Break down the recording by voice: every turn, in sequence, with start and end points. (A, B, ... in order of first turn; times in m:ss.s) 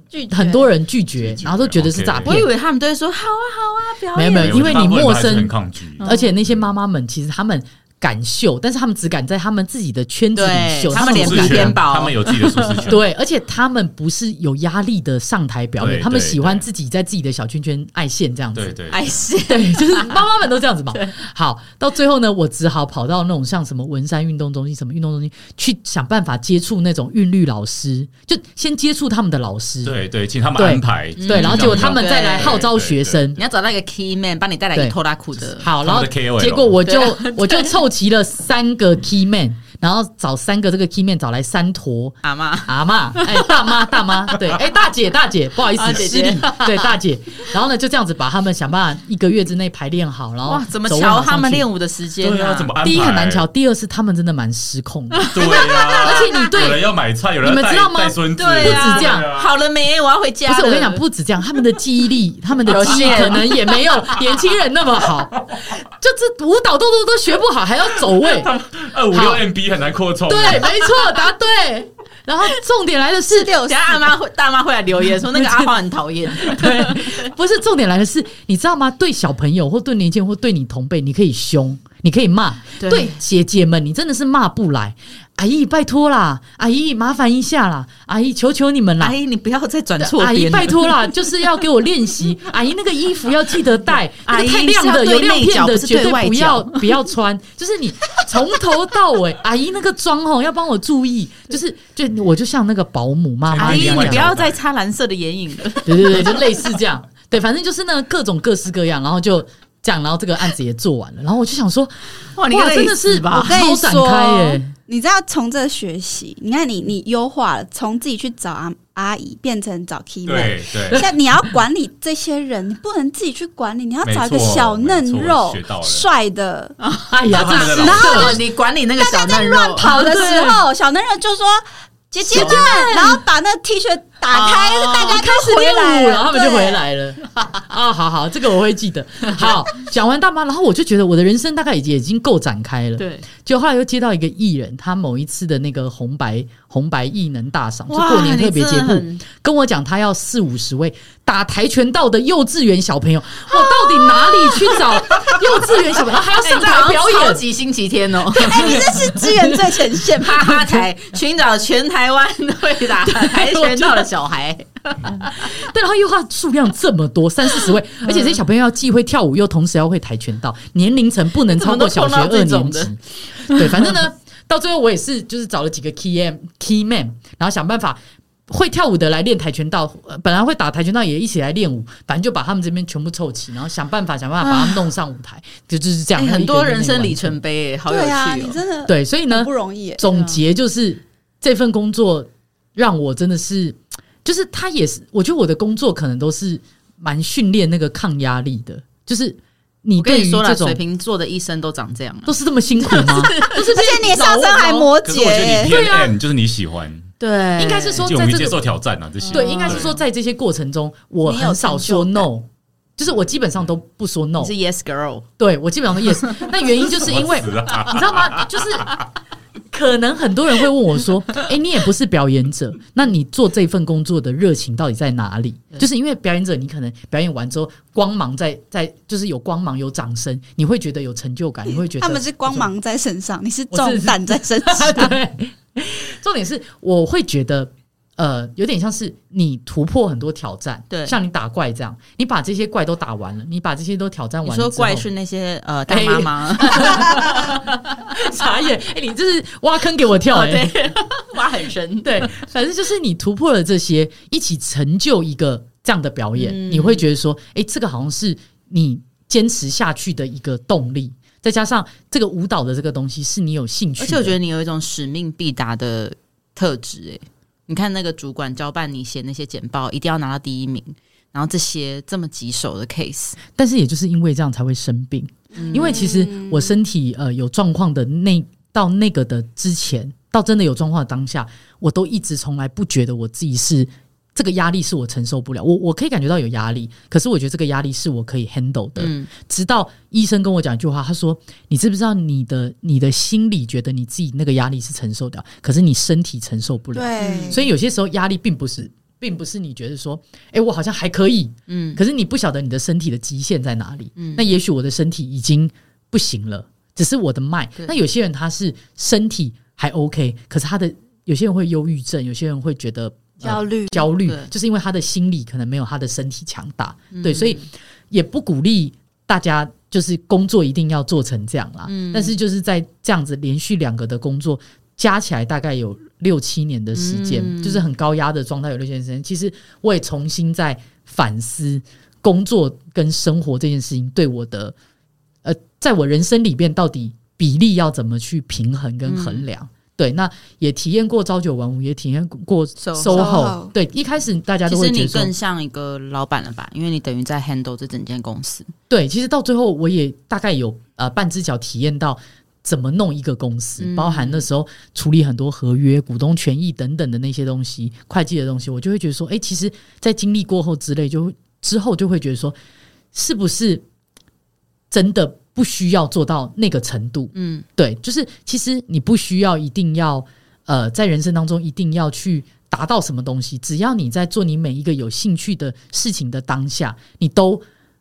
0:00.1-0:00.7 A
0:00.3-0:02.5 B
0:01.2-0:02.4 C
0:02.2-0:04.8 D
0:04.2-0:11.8 B
0:04.4-0:06.7 C
0:06.0-0:06.3 D
0:10.3-0:12.9 D
0:10.9-0:13.0 C
0:12.9-0:18.8 B
0:15.8-0:16.6 C
0:18.6-0:19.0 C
0:18.9-0:20.2 D
0:19.5-0:30.0 B
0:29.8-0:33.2 C
0:30.6-0:33.4 B
0:31.2-0:32.7 D
0:33.4-0:35.7 D
0:35.6-0:51.7 B
0:35.8-0:36.8 C
0:36.8-0:37.8 D
0:42.2-0:43.9 D
0:45.7-0:46.9 D
0:50.5-0:52.7 D
0:52.2-0:53.4 C
0:52.8-0:56.9 B
0:55.2-0:56.5 D
0:55.3-0:59.5 C
0:57.4-0:59.3 B
0:58.4-1:01.0 D
1:00.5-1:08.5 B
1:02.6-1:03.7 D
1:08.2-1:10.8 C
1:09.1-1:09.4 B
1:10.3-1:13.6 B
1:13.3-1:14.1 A
1:13.6-1:17.2 D
1:15.2-1:15.7 B
1:16.4-1:29.2 B
1:22.8-1:23.1 D
1:29.0-1:31.0 D
1:30.0-1:44.3 B
1:34.2-1:37.0 D
1:43.5-1:44.6 C
1:43.6-1:46.6 D
1:45.9-1:52.0 B
1:52.4-1:53.5 D
1:52.5-1:54.7 B
1:53.4-2:06.8 A
2:00.2-2:01.1 C
2:04.0-2:06.1 C
2:06.8-2:09.9 D
2:07.1-2:08.4 B
2:07.3-2:08.3 C
2:07.7-2:08.4 A
2:09.0-2:16.9 A
2:09.8-2:10.6 B
2:12.3-2:12.7 B
2:12.3-2:13.2 D
2:14.3-2:15.2 D
2:15.1-2:37.4 B
2:23.0-2:23.3 D
2:27.9-2:29.2 D
2:33.5-2:35.3 D
2:36.2-2:38.9 D
2:38.4-2:40.8 A
2:38.5-2:39.8 B
2:40.2-2:45.4 D
2:43.1-2:44.1 B
2:45.1-3:07.4 B
2:48.0-2:48.4 D
2:51.5-2:52.9 D
3:04.4-3:04.8 D
3:06.2-3:08.6 D
3:07.9-3:10.0 A
3:08.9-3:20.8 B
3:10.1-3:10.4 D
3:20.0-3:23.6 D
3:22.3-3:24.9 B
3:23.5-3:25.8 A
3:25.0-3:27.1 C
3:25.6-3:26.2 B
3:27.2-3:28.1 D
3:27.6-3:28.6 B
3:28.0-3:29.9 C
3:29.3-3:32.5 B
3:29.3-3:30.0 D
3:29.3-3:29.9 A
3:31.2-3:32.3 A
3:33.0-3:34.5 B
3:34.4-3:35.3 D
3:35.4-3:39.0 B
3:36.8-3:38.9 C
3:39.7-3:52.7 B
3:51.7-3:55.2 A
3:53.7-4:05.1 B
4:00.9-4:01.2 D
4:04.4-4:07.8 D
4:05.9-4:10.7 B
4:10.3-4:12.4 D
4:12.0-4:24.4 B
4:16.4-4:17.1 D
4:24.0-4:33.4 D
4:33.6-5:34.8 B
4:35.6-4:36.1 D
4:35.6-4:36.7 A
4:49.0-4:49.3 D
4:56.9-4:57.7 A
4:57.2-4:57.6 D
5:01.7-5:02.0 D
5:04.2-5:04.4 D
5:13.4-5:14.5 D
5:17.1-5:17.6 D
5:21.9-5:22.4 D
5:26.9-5:27.8 D
5:35.4-5:45.3 B
5:39.0-5:39.4 D
5:42.8-5:43.5 D
5:43.1-5:43.7 A
5:44.7-5:48.7 D
5:48.9-6:02.6 B
5:53.8-5:54.5 D
6:03.1-6:03.8 B
6:04.9-6:17.6 B
6:07.3-6:07.6 D